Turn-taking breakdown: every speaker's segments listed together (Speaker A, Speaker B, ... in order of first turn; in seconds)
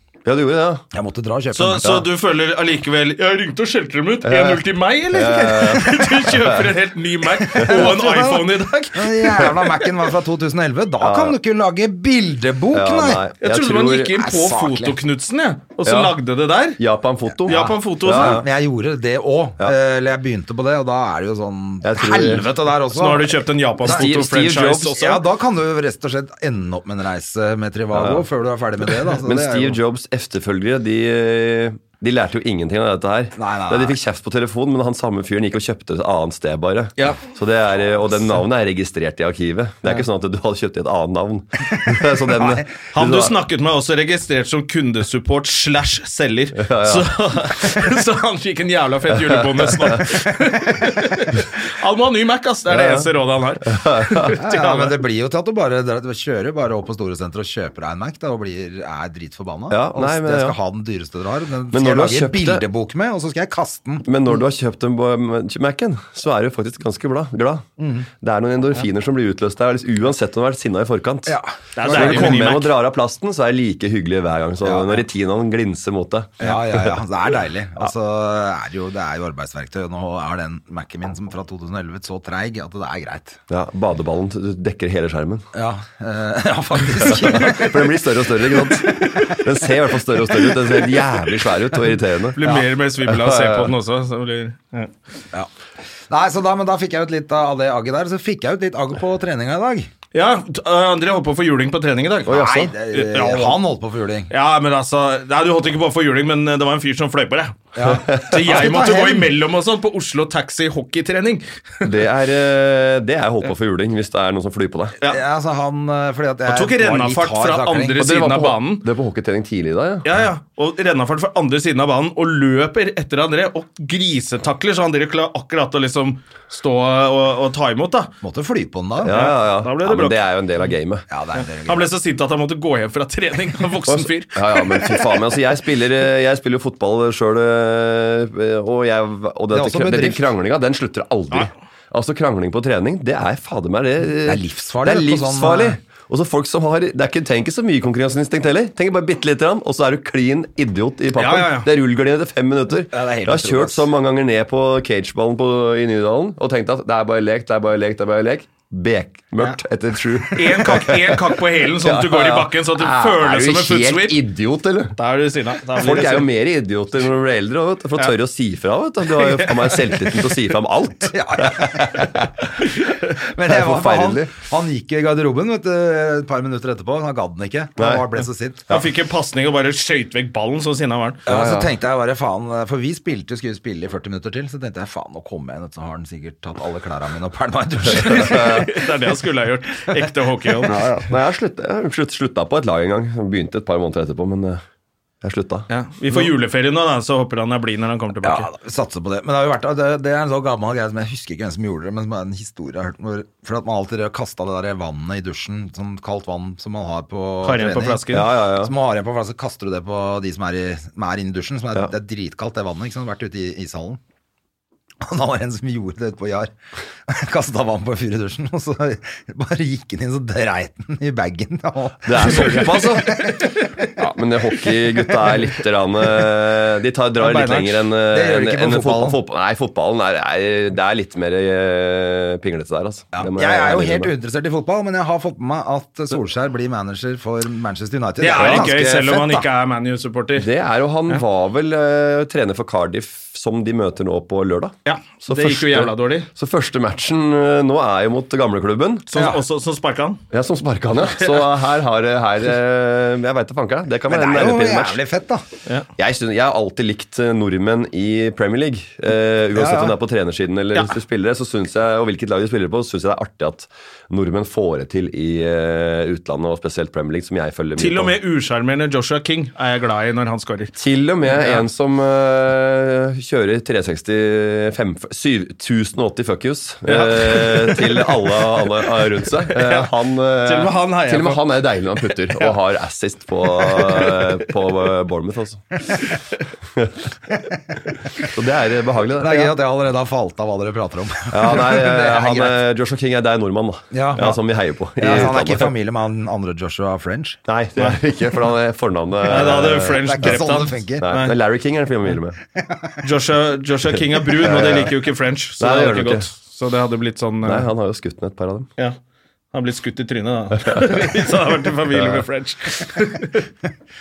Speaker A: 0.2-0.8, 4.2-6.7, 7.6-7.9, 11.0-11.4, 12.7-14.2, 15.8-16.1, 16.8-18.4, 21.8-22.5, 23.8-24.9, 27.9-28.2, 29.0-43.3, 46.5-47.1, 49.1-50.0, 52.7-53.1, 53.6-54.3, 59.7-60.5, 61.7-62.6, 64.0-67.7, 68.2-71.3, 71.9-76.8, 83.5-85.5, 86.9-92.4, 93.0-93.7, 102.2-102.7, 111.8-115.0, 118.0-120.1, 129.0-131.0, 133.9-164.9, 165.8-172.5, 173.5-174.3, 177.8-178.0, 181.2-181.7, 187.9-188.8, 190.7-194.6, 195.2-195.7, 208.1-208.7, 222.0-223.4, 224.0-234.1, 238.3-238.7, 240.3-249.1, 250.3-255.0, 255.9-268.1, 270.8-285.8, 288.2-289.5, 291.3-295.7, 297.5-300.4, 301.0-302.4, 304.3-304.9, 305.6-306.3, 307.4-308.7, 310.6-311.0, 311.9-312.2
Speaker B: 0.9-2.0, 7.4-13.2, 14.2-15.0, 17.5-24.1, 24.9-29.8, 33.4-34.0, 54.4-64.1, 67.8-68.1, 71.2-72.6, 74.6-75.0, 76.4-83.4, 85.5-89.4, 96.1-99.9, 102.2-104.3, 107.8-109.3, 115.0-118.0, 128.2-129.2, 131.1-131.9, 139.5-140.3, 144.2-145.8, 152.9-153.8, 171.1-172.1, 173.2-178.7, 181.2-188.8, 189.9-191.1, 198.2-214.0, 215.0-216.5, 217.1-223.9, 227.2-229.2, 233.1-239.4, 249.1-249.4, 254.1-255.4, 259.6-259.9, 289.2-292.6, 293.9-294.4, 294.9-297.4, 299.3-301.1, 302.6-303.0
Speaker C: 1.5-9.6, 13.4-16.8, 17.5-18.4, 22.9-25.2, 42.9-55.0, 71.8-72.7, 92.3-94.9, 100.1-103.6, 104.3-107.6, 108.1-111.9, 116.5-118.8, 120.0-128.1, 129.1-130.2, 131.4-134.4, 151.2-151.7, 160.3-164.2, 164.9-166.3, 169.1-170.3, 178.7-181.2, 188.0-190.7, 195.7-198.5, 207.4-208.3, 227.3-227.6, 238.2-240.5, 244.8-246.3, 249.1-250.2, 251.2-251.6, 267.8-270.7, 271.2-271.6, 276.9-279.9, 280.4-281.4, 282.0-282.5, 283.6-284.3, 299.3-301.3, 303.0-307.7, 309.5-313.5